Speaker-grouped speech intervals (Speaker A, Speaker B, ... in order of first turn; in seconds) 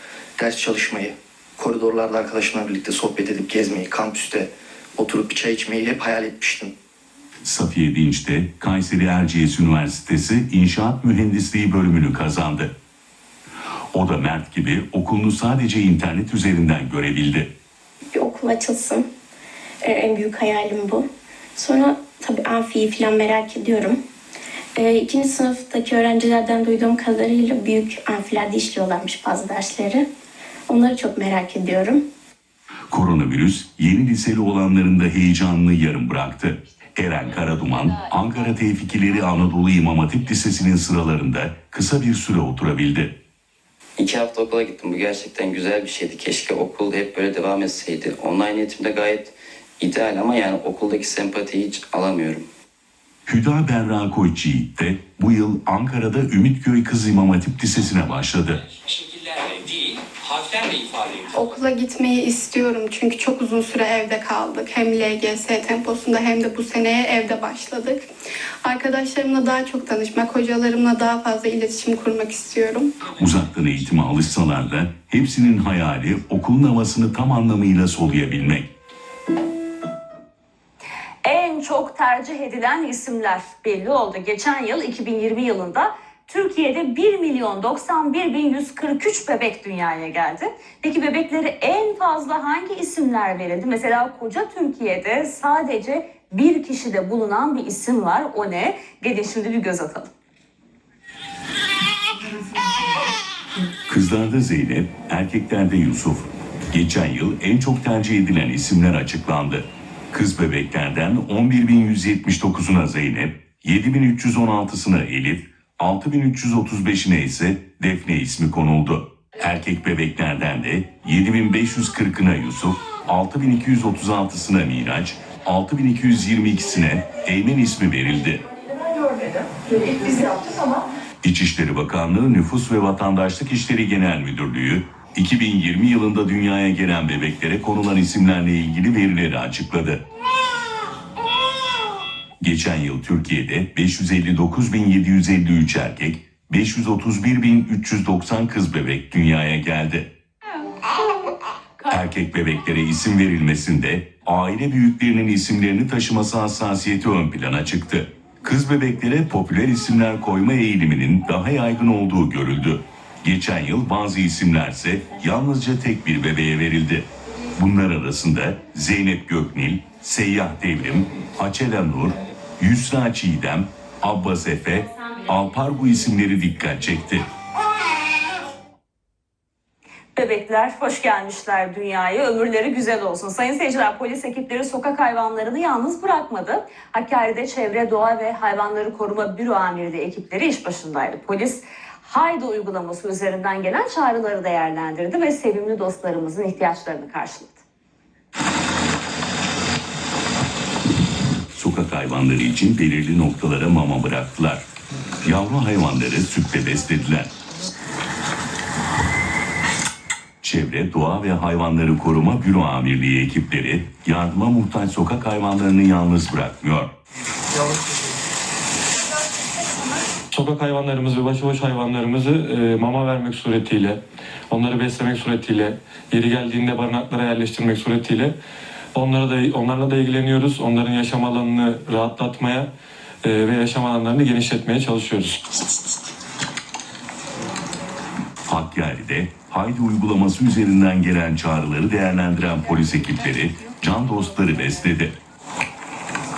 Speaker A: 0.4-6.7
Speaker B: 7.4-12.7, 13.9-17.5, 32.9-43.1, 53.2-58.6, 73.2-78.7, 103.9-128.4, 131.2-140.0, 142.4-150.1, 151.9-177.2, 201.5-204.6, 205.2-207.3, 210.4-216.9, 238.5-245.1
Speaker C: 18.3-19.0, 19.9-21.0, 21.7-23.9, 24.9-28.3, 28.8-30.0, 30.8-32.0
Speaker D: 44.0-52.4
Speaker E: 61.3-68.0, 68.6-72.9
Speaker F: 81.2-100.1, 180.2-197.6
Speaker G: 220.3-228.3, 228.9-232.7, 233.2-235.4